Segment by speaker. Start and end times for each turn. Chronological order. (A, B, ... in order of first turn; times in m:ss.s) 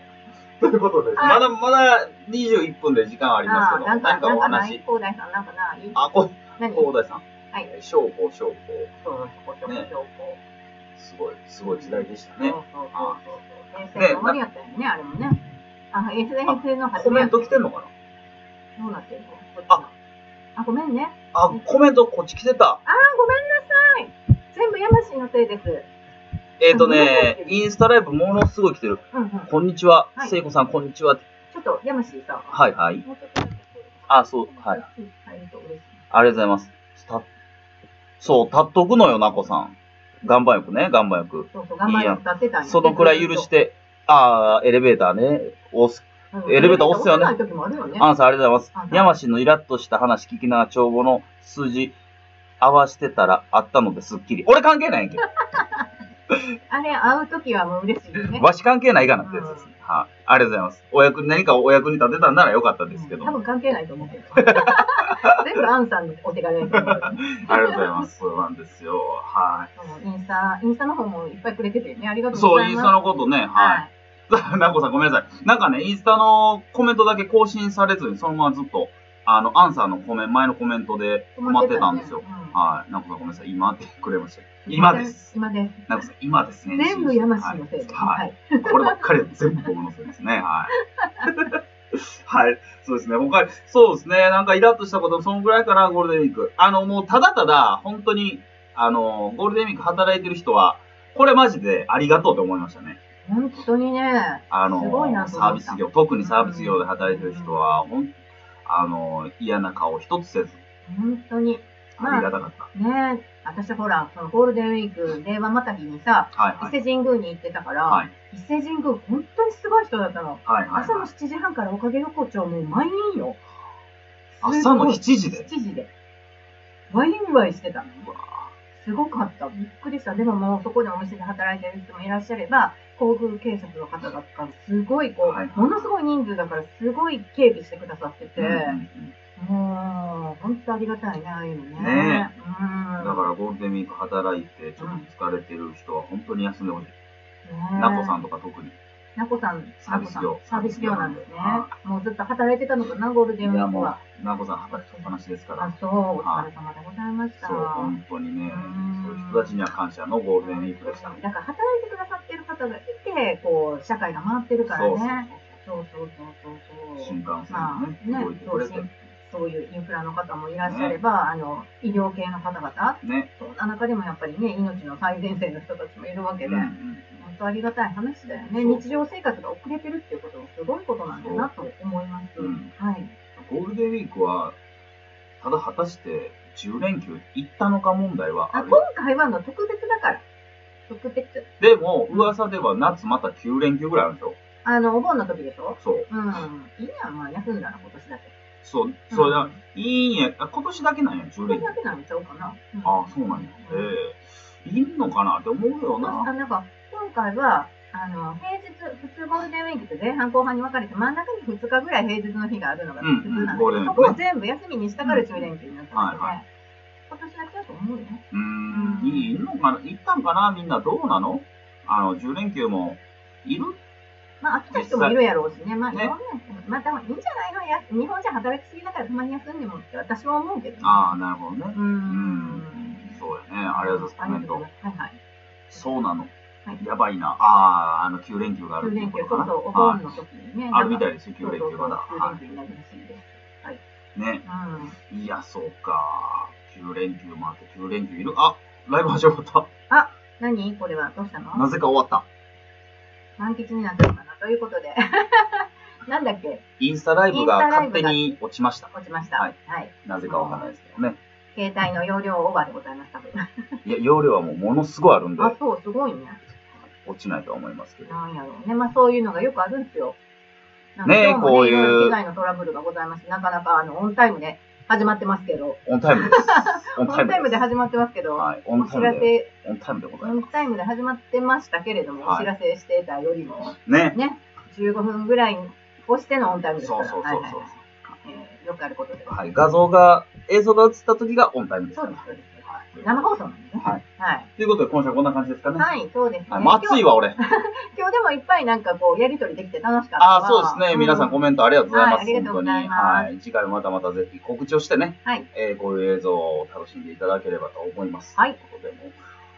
0:00.6-0:04.8 A
0:01.2-0:01.4 B
0:03.4-0:06.9 B
0:05.9-0:08.9 A
0:09.0-0:10.4 B
0:11.0-0:13.2 A
0:11.6-0:15.4 B
0:14.0-0:14.4 A
0:15.9-0:17.6 B
0:16.4-0:17.9 A
0:18.8-0:19.9 B
0:20.5-0:21.6 B
0:21.3-0:22.8 A
0:22.8-0:25.9 B
0:26.6-0:31.2 A
0:26.7-0:27.6 B
0:29.1-0:29.5 B
0:31.5-0:36.0 B
0:32.5-0:33.0 A
0:34.1-0:34.8 A
0:36.1-0:37.2 A
0:38.2-0:47.3 A
0:41.5-0:43.5 B
0:46.3-0:48.1 B
0:48.0-0:51.9 A
0:48.7-0:49.1 B
0:52.6-0:55.2 A
0:55.5-0:55.8 B
0:56.7-0:58.4 B
0:58.2-1:03.4 A
0:59.2-0:59.7 B
1:02.9-1:07.8 B
1:04.4-1:05.4 A
1:06.7-1:09.7 A
1:09.8-1:13.0 B
1:12.3-1:25.3 A
1:13.5-1:13.9 B
1:21.4-1:22.6 B
1:24.6-1:25.9 B
1:25.9-1:30.7 A
1:26.7-1:29.0 B
1:31.0-1:31.3 B
1:31.2-1:43.0 A
1:43.2-1:47.6 B
1:44.5-1:48.1 A
1:48.6-1:50.6 A
1:50.8-2:03.4 B
1:52.0-1:52.7 A
1:56.3-1:56.8 A
2:00.4-2:01.1 A
2:04.3-2:05.9 B
2:04.4-2:05.5 A
2:06.9-2:08.0 B
2:08.0-2:08.5 A
2:08.7-2:18.8 B
2:15.2-2:15.9 A
2:18.4-2:19.1 A
2:19.4-2:23.3 B
2:21.8-2:22.3 A
2:23.0-2:26.9 A
2:24.8-2:25.1 B
2:27.4-2:28.1 B
2:27.7-2:28.8 A
2:29.2-2:34.0 B
2:29.8-2:31.7 A
2:33.4-2:35.7 A
2:35.6-2:37.9 B
2:36.2-2:36.5 A
2:37.4-2:41.2 A
2:38.5-2:39.6 B
2:40.4-3:03.1 B
2:44.7-2:45.5 A
2:47.0-2:48.9 A
2:50.6-2:51.0 A
2:53.0-2:53.3 A
2:56.4-2:57.2 A
2:58.6-2:59.0 A
3:01.1-3:01.5 A
3:02.4-3:02.7 A
3:03.4-3:04.6 A
3:05.4-3:08.8 A
3:08.5-3:10.2 B
3:10.9-3:11.5 B
3:11.6-3:14.4 A
3:14.6-3:18.3 B
3:15.8-3:16.1 A
3:18.6-3:21.7 A
3:19.1-3:19.5 B
3:21.4-3:23.9 B
3:22.8-3:26.3 A
3:26.0-3:36.4 B
3:33.0-3:34.2 A
3:35.0-3:36.3 A
3:37.1-3:39.3 B
3:38.3-3:43.8 A
3:44.4-3:51.1 B
3:44.7-3:45.2 A
3:45.9-3:46.1 A
3:50.8-3:54.6 A
3:51.7-3:53.2 B
3:53.7-3:55.2 B
3:55.7-4:00.0 A
3:58.8-4:03.8 B
4:00.7-4:02.4 A
4:04.1-4:04.4 A
4:04.4-4:05.0 B
4:05.1-4:09.7 A
4:09.9-4:11.6 B
4:11.5-4:12.2 A
4:13.4-4:16.6 B
4:16.8-4:21.2 A
4:17.3-4:18.2 B
4:18.9-4:20.7 B
4:21.5-4:23.5 B
4:23.8-4:25.6 A
4:25.4-4:26.4 B
4:27.0-4:28.1 A
4:28.0-4:30.2 B
4:31.0-4:39.5 B
4:31.0-4:32.2 A
4:35.8-4:37.6 A
4:38.4-4:40.6 A
4:40.2-4:47.7 B
4:42.2-4:42.5 A
4:43.8-4:44.2 A
4:46.8-4:47.8 A
4:48.2-4:49.6 B
4:49.3-4:52.2 A
4:51.9-4:54.5 B
4:53.0-4:53.3 A
4:54.6-4:55.8 A
4:55.8-5:03.3 B
4:56.5-4:57.4 A
5:00.2-5:09.2 A